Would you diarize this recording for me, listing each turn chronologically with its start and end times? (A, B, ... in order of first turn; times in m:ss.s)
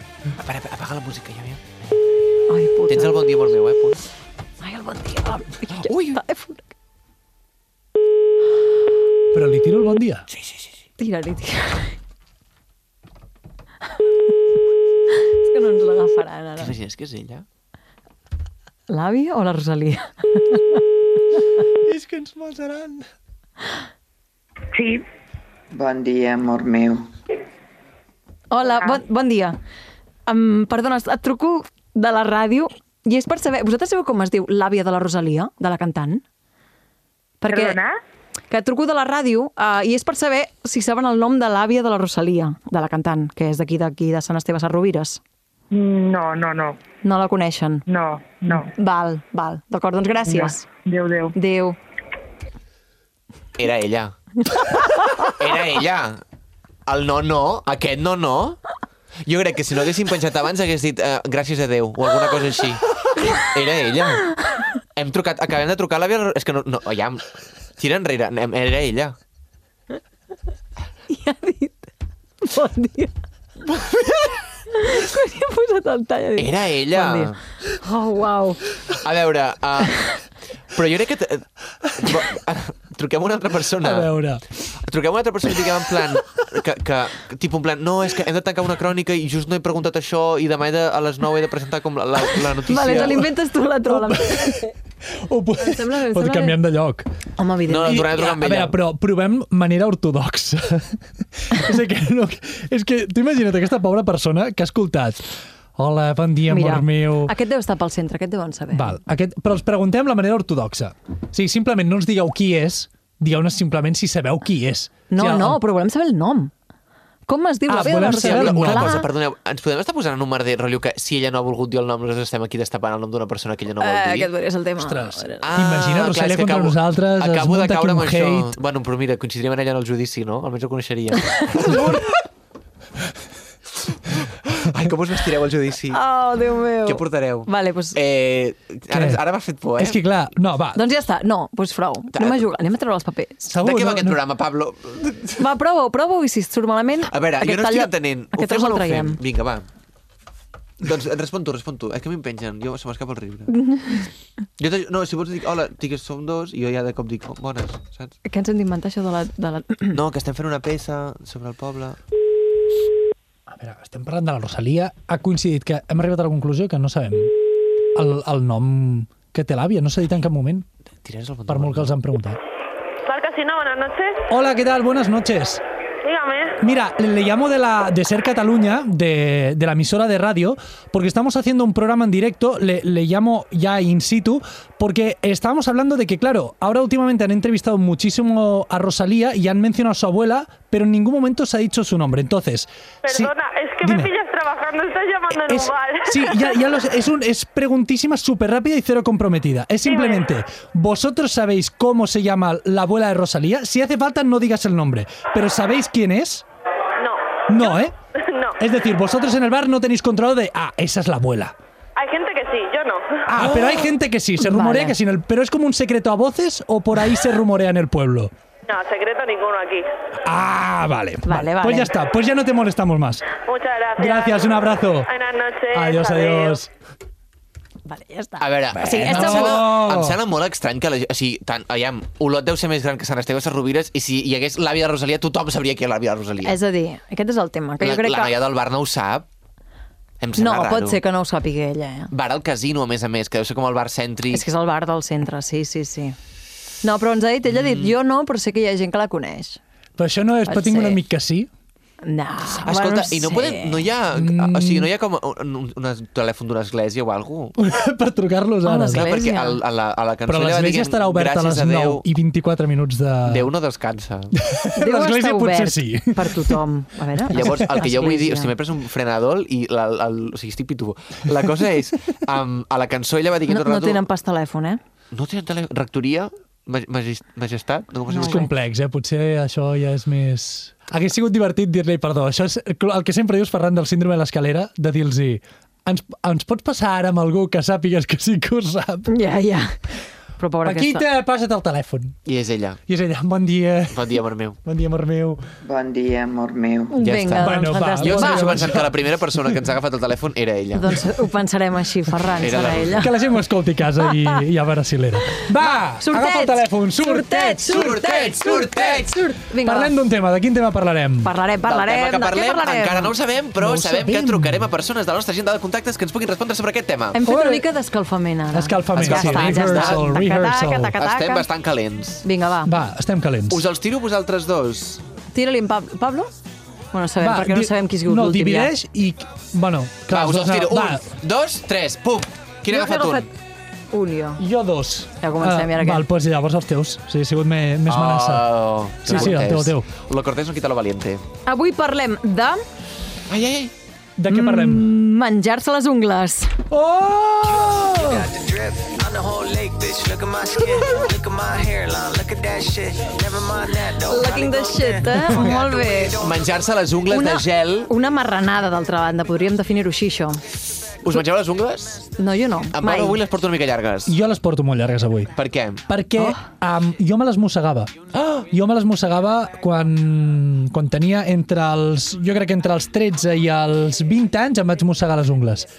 0:00.4-0:01.6 A
0:02.5-0:03.2 B
0:02.9-0:04.0 A
0:04.6-0:06.7 B
0:05.8-0:06.2 A
0:09.3-0:10.3 C
0:10.3-0:10.8 A
0:11.0-0:12.0 B
0:15.3-0:16.7 B
0:16.6-0:17.4 A
0:18.9-0:20.8 B
0:21.8-0:23.1 C
0:24.7-0:25.0 D
0:25.7-0:27.1 E
0:28.5-0:29.6 B
0:28.7-0:29.0 D
0:30.3-0:36.2 B
0:37.4-0:37.8 B
0:37.5-0:38.0 D
0:38.5-0:45.2 B
0:45.7-0:46.8 D
0:47.0-0:47.8 B
0:47.9-0:48.7 D
0:48.5-0:50.6 B
0:50.2-0:51.3 D
0:51.3-0:51.8 B
0:53.6-0:54.1 A
0:54.5-0:55.2 B
0:55.3-0:56.2 A
0:56.8-0:58.6 A
0:59.2-1:02.8 A
1:03.3-1:04.3 A
1:04.9-1:09.2 A
1:11.1-1:11.9 B
1:12.4-1:13.1 B
1:14.7-1:18.6 B
1:16.4-1:17.4 A
1:18.9-1:20.2 A
1:20.7-1:24.1 A
1:23.8-1:24.4 C
1:24.7-1:33.3 A
1:32.7-1:34.7 B
1:33.9-1:37.1 C
1:35.6-1:36.6 B
1:37.4-1:38.2 B
1:37.6-1:38.8 A
1:38.2-1:47.3 C
1:46.5-1:49.0 B
1:48.7-1:55.6 C
1:55.1-1:56.5 B
1:57.3-1:59.1 B
1:57.7-1:59.0 C
1:58.0-2:04.3 A
2:03.8-2:05.4 B
2:04.8-2:08.6 C
2:05.4-2:12.1 A
2:13.9-2:16.0 A
2:15.9-2:18.0 B
2:16.8-2:20.0 A
2:18.9-2:19.2 C
2:19.8-2:20.8 C
2:20.8-2:23.5 B
2:22.1-2:22.4 A
2:23.5-2:24.2 C
2:23.6-2:25.5 A
2:25.4-2:29.2 B
2:27.1-2:29.6 A
2:30.8-2:33.5 A
2:33.5-2:34.1 B
2:34.6-2:38.1 A
2:38.2-2:40.0 B
2:39.9-2:42.0 A
2:43.5-2:47.3 C
2:47.9-2:50.7 C
2:51.0-2:51.9 A
2:51.5-2:52.4 C
2:53.0-2:54.2 F
2:54.3-2:55.6 C
2:56.0-2:56.6 F
2:56.6-3:13.3 C
3:13.0-3:16.6 F
3:13.8-3:14.1 C
3:15.3-3:26.4 C
3:19.8-3:20.2 F
3:27.0-3:28.6 F
3:27.5-3:27.9 C
3:28.6-3:31.5 C
3:32.0-3:33.2 F
3:33.3-3:38.3 C
3:34.4-3:34.9 B
3:38.7-3:39.9 F
3:40.2-3:43.2 C
3:41.2-3:41.9 B
3:43.4-3:46.6 F
3:44.0-3:45.1 C
3:45.7-3:46.7 C
3:47.8-3:49.6 B
3:48.4-3:56.6 A
3:48.8-3:50.2 C
3:56.4-3:58.3 B
3:57.8-3:59.3 A
4:00.2-4:01.0 A
4:00.4-4:02.1 B
4:02.1-4:04.4 A
4:04.3-4:06.2 B
4:06.8-4:09.6 B
4:07.5-4:07.9 A
4:10.0-4:11.5 C
4:10.5-4:11.0 B
4:12.0-4:13.9 B
4:12.5-4:17.6 A
4:14.2-4:14.9 C
4:17.6-4:19.1 C
4:18.6-4:19.6 B
4:18.9-4:22.0 A
4:20.2-4:23.5 C
4:23.2-4:24.3 A
4:24.4-4:26.6 C
4:24.8-4:28.5 B
4:27.3-4:34.1 A
4:33.5-4:34.8 B
4:35.1-4:38.5 A
4:38.1-4:38.5 B
4:38.2-4:49.1 C
4:49.1-4:49.7 B
4:50.4-4:51.0 B
4:50.6-4:52.2 C
4:52.2-4:52.8 A
4:52.9-4:54.1 C
4:53.9-4:54.6 A
4:54.6-4:55.4 C
4:55.6-4:57.0 E
4:56.9-4:58.7 B
4:57.0-5:01.0 A
4:57.4-4:58.9 C
5:00.8-5:03.2 B
5:02.4-5:03.1 A
5:03.0-5:08.2 C
5:06.0-5:09.9 B
5:07.6-5:09.3 A
5:09.6-5:11.3 C
5:11.2-5:13.1 B
5:11.6-5:17.2 A
5:13.6-5:14.6 C
5:17.2-5:21.5 B
5:17.2-5:17.6 C
5:18.5-5:20.9 C
5:18.9-5:20.1 A
5:20.9-5:22.2 A
5:22.2-5:22.7 B
5:22.6-5:23.6 C
5:23.5-5:25.0 A
5:25.3-5:26.3 B
5:26.9-5:28.7 B
5:27.2-5:31.1 C
5:30.1-5:33.3 A
5:32.7-5:33.3 B
5:33.9-5:34.4 B
5:34.4-5:39.9 C
5:35.2-5:36.0 B
5:37.9-5:41.2 A
5:41.4-5:42.6 B
5:43.3-5:43.7 A
5:44.2-5:44.9 C
5:44.3-5:46.6 B
5:46.7-5:48.2 C
5:47.5-5:56.4 G
5:54.0-5:56.2 B
5:56.2-5:57.9 A
5:57.1-6:00.4 B
6:01.0-6:02.1 A
6:02.2-6:03.2 B
6:02.7-6:04.2 A
6:04.1-6:05.3 C
6:05.3-6:05.8 A
6:05.9-6:07.9 C
6:08.1-6:08.5 A
6:08.5-6:15.7 C